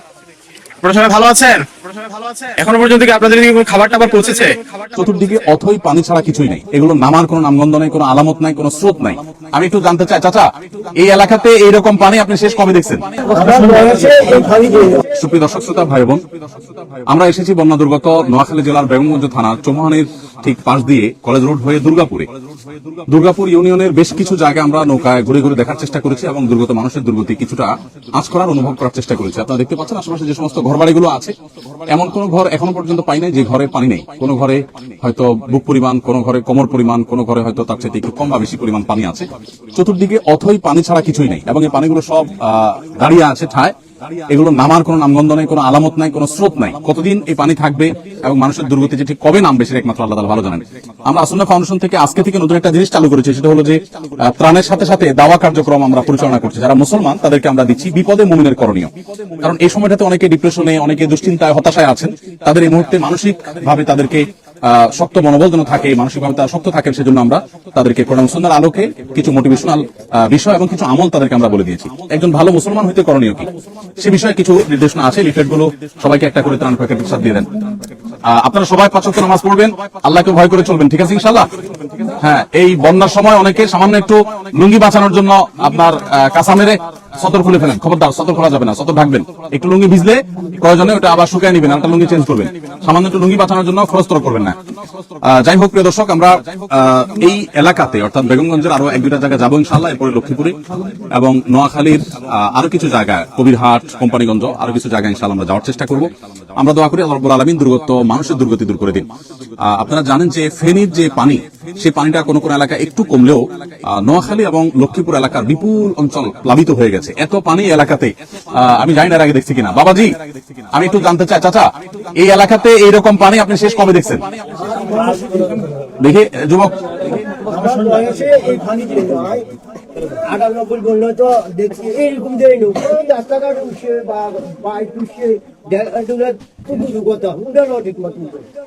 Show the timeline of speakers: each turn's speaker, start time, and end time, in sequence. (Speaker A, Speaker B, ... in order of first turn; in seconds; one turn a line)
Speaker A: 0.8-4.6
Speaker B: 4.9-13.5
Speaker C: 13.4-14.9
Speaker B: 14.9-16.2
Speaker B: 17.1-22.3
Speaker B: 23.1-31.3
Speaker B: 31.9-43.8
Speaker B: 44.3-77.5
Speaker B: 78.2-81.5
Speaker B: 82.2-94.6
Speaker B: 95.2-100.6
Speaker B: 101.1-109.1
Speaker B: 109.6-120.2
Speaker B: 120.7-124.8
Speaker C: 124.8-125.7
Speaker B: 126.0-127.2
Speaker C: 127.5-129.5
Speaker C: 130.2-138.5